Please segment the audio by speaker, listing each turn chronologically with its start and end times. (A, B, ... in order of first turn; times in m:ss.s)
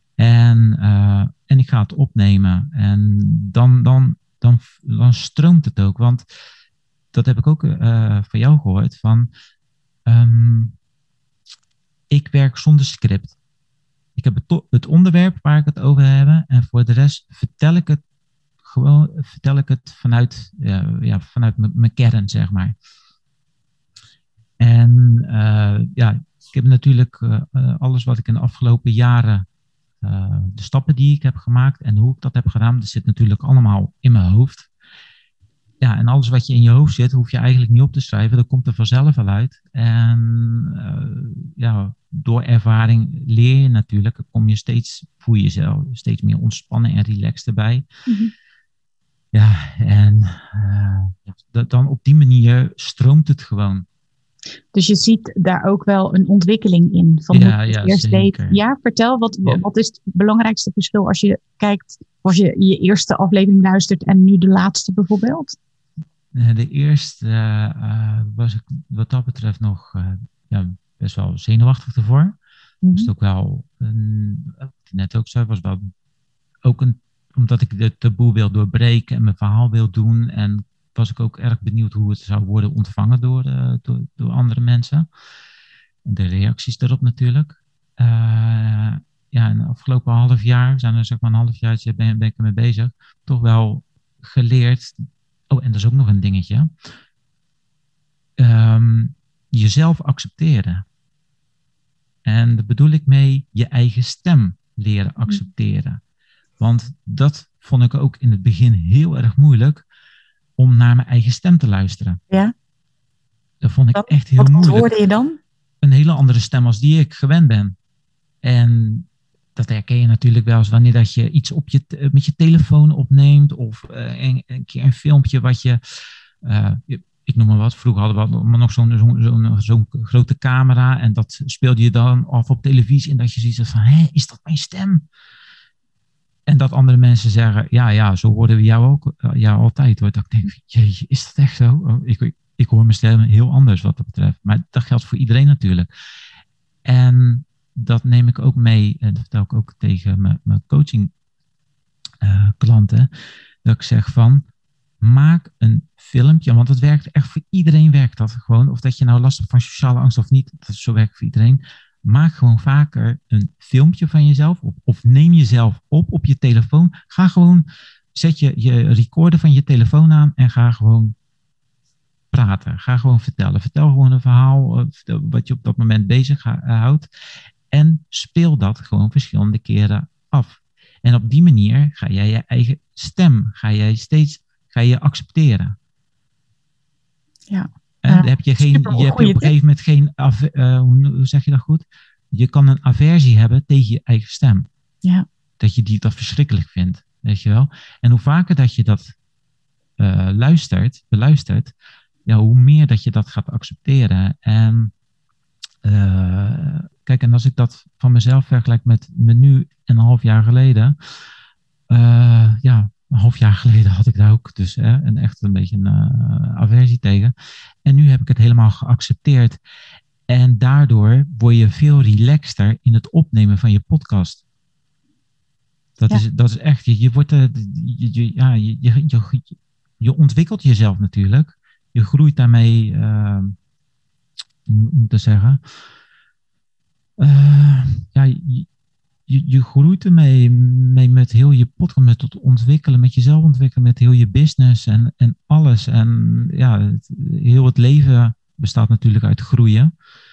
0:00.2-0:06.2 A
0:07.1-0:09.3 A
0:10.1-0:10.8 A
0:12.1-0:13.4 A
0:14.2-0:18.0 A
0:18.6-0:22.8 A
0:24.6-0:29.5 A
0:30.0-0:34.7 A
0:35.8-0:47.9 A
0:48.1-0:48.3 B
0:49.3-0:53.9 A
0:54.7-1:05.6 B
0:57.3-0:58.6 A
1:06.3-1:12.4 A
1:12.8-1:13.1 B
1:12.9-1:15.8 A
1:16.6-1:25.1 A
1:26.0-1:36.7 A
1:38.4-1:40.9 A
1:42.2-1:46.0 A
1:46.6-1:49.8 A
1:50.6-1:52.2 A
1:53.6-1:54.9 A
1:53.9-1:55.4 B
1:55.8-1:57.8 A
1:58.4-2:05.8 A
2:06.4-2:15.1 A
2:16.5-2:25.9 A
2:26.9-2:31.1 A
2:32.2-2:33.1 A
2:33.6-2:34.4 A
2:35.0-2:51.1 A
2:52.3-2:57.1 A
2:57.7-3:05.8 A
3:07.5-3:09.5 B
3:08.0-3:14.7 A
3:15.6-3:19.1 A
3:20.0-3:21.7 A
3:22.3-3:24.9 A
3:25.8-3:31.0 A
3:31.9-3:37.3 A
3:37.8-3:39.6 A
3:40.3-3:44.4 A
3:46.0-3:53.6 A
3:54.7-3:55.6 A
3:57.2-3:58.7 A
3:59.3-4:09.9 A